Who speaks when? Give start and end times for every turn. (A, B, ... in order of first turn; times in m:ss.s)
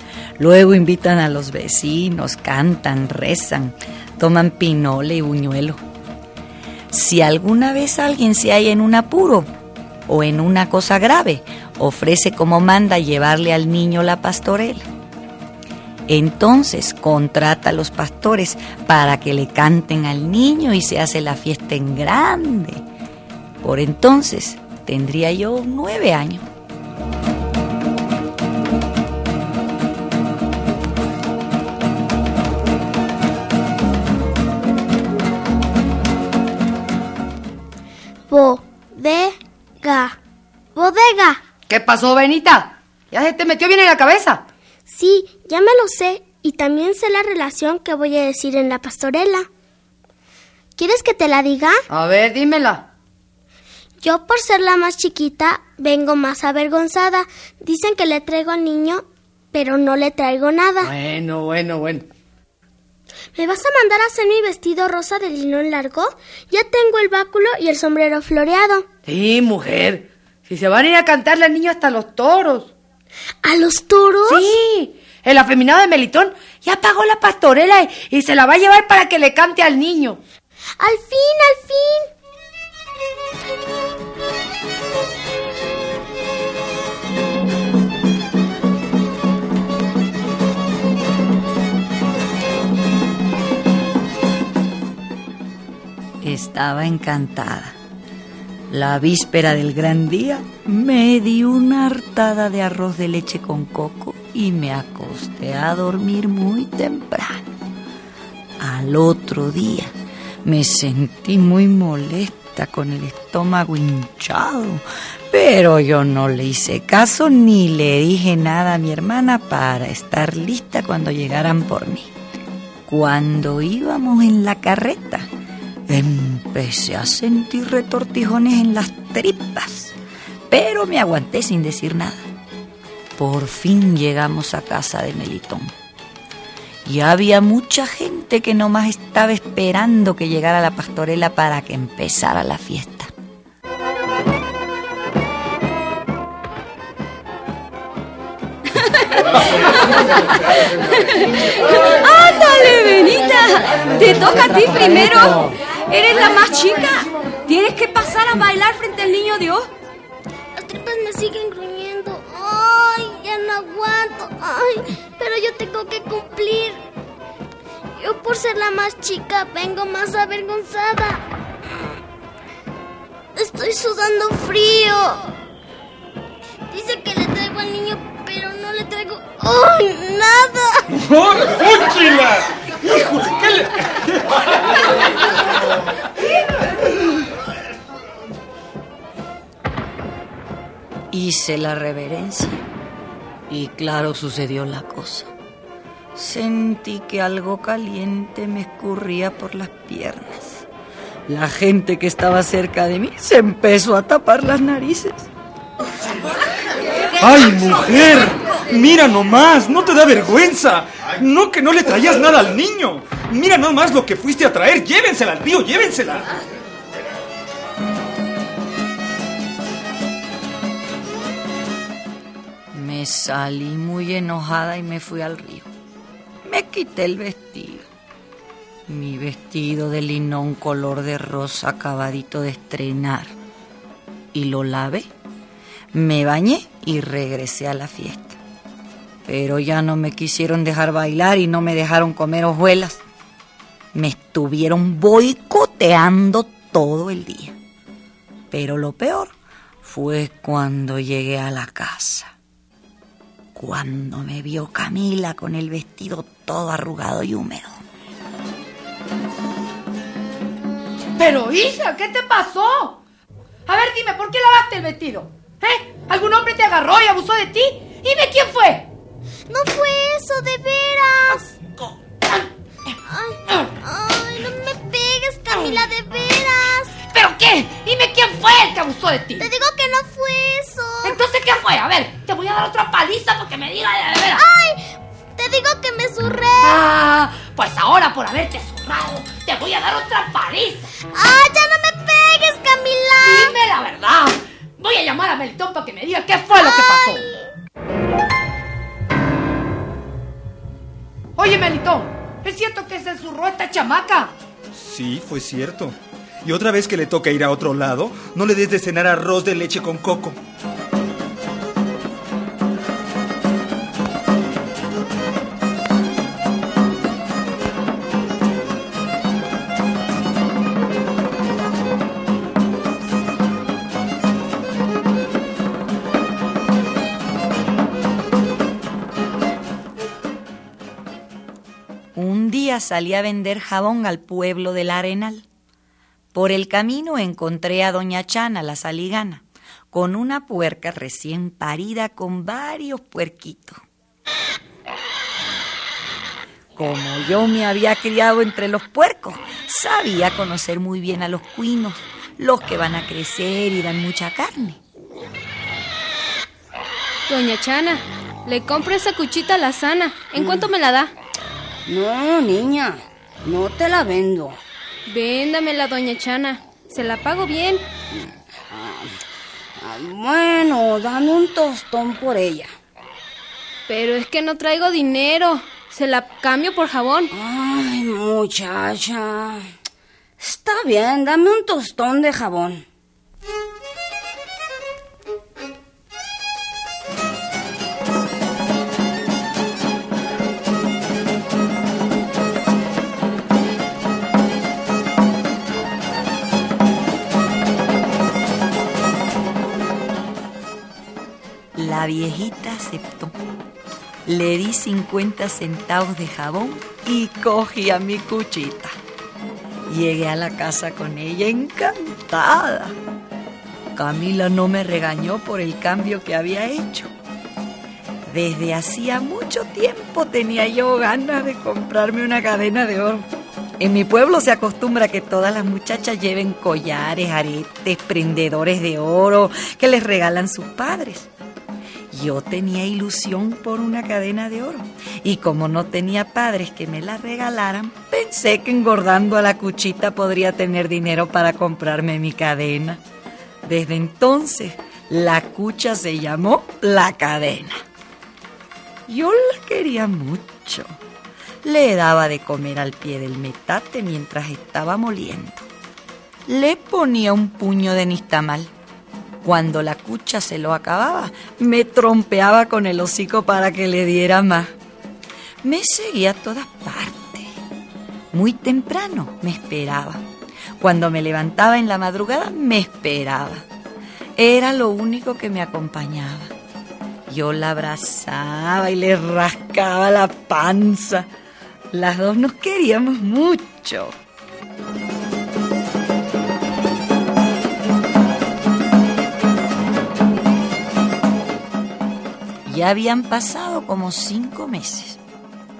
0:00.4-0:05.8 A
0:06.9-0:09.5 A
0:10.1-0:14.8 A
0:16.1-0:22.8 A
0:23.6-0:26.5 A
0:38.3-0:40.2 B
0:40.8-0:41.4 B
0:41.7-0:44.4 C
0:44.9-0:49.5 B
0:50.8-0:51.8 B
0:51.9-0:52.8 C
0:54.0-1:00.9 B
1:00.8-1:02.0 C
1:03.4-1:08.8 B
1:09.0-1:12.7 C
1:13.4-1:14.5 B
1:14.3-1:20.2 C
1:20.8-1:22.1 B
1:36.2-1:37.8 A
1:38.7-1:47.5 A
1:48.6-2:02.1 A
2:02.9-2:05.3 A
2:05.9-2:09.9 A
2:10.5-2:12.3 A
2:13.2-2:15.7 A
2:16.8-2:23.1 A
2:29.1-2:39.7 D
2:40.6-2:46.8 B
2:48.0-2:51.2 B
2:53.4-2:55.3 B
2:56.7-3:00.8 B
3:00.9-3:05.2 E
3:11.1-3:12.6 A
3:13.5-3:15.3 A
3:16.1-3:20.6 A
3:21.3-3:25.3 A
3:27.2-3:36.3 E
3:42.7-3:45.7 A
3:46.4-3:47.9 A
3:48.9-3:53.3 A
3:54.3-3:55.1 A
3:55.9-3:58.4 A
3:59.2-4:03.0 A
4:03.9-4:07.6 A
4:08.5-4:12.4 A
4:13.5-4:17.8 A
4:21.2-4:23.0 C
4:23.7-4:28.9 C
4:29.5-4:31.5 B
4:31.3-4:32.5 C
4:33.0-4:37.0 B
4:35.5-4:35.8 C
4:37.1-4:39.5 C
4:39.4-4:41.2 B
4:41.0-4:44.4 C
4:44.4-4:46.8 B
4:46.6-4:50.9 C
4:51.1-4:53.6 B
4:53.2-4:57.2 C
4:56.6-4:57.2 B
5:01.4-5:04.3 C
5:04.7-5:10.4 E
5:32.1-5:35.4 A
5:36.3-5:43.8 A
5:46.8-5:54.8 A
5:57.3-6:01.1 F
6:00.4-6:00.7 G
6:01.9-6:04.6 G
6:05.1-6:07.8 F
6:08.7-6:09.1 G
6:09.8-6:12.7 G
6:13.9-6:17.3 F
6:17.3-6:19.6 G
6:20.4-6:22.8 G
6:41.8-6:43.4 A
6:44.2-6:49.0 A
6:49.9-6:52.9 A
6:53.9-6:57.1 A
6:58.3-7:03.3 A
7:03.8-7:11.3 A
7:12.1-7:23.0 A
7:23.6-7:27.8 A
7:29.1-7:31.0 A
7:31.6-7:35.6 A
7:36.5-7:38.7 A
7:39.4-7:44.8 A
7:45.6-7:47.5 A
7:48.3-7:50.2 A
7:50.8-7:53.6 A
7:54.4-7:56.5 A
7:57.3-8:01.3 A
8:01.9-8:04.1 A
8:12.7-8:15.2 A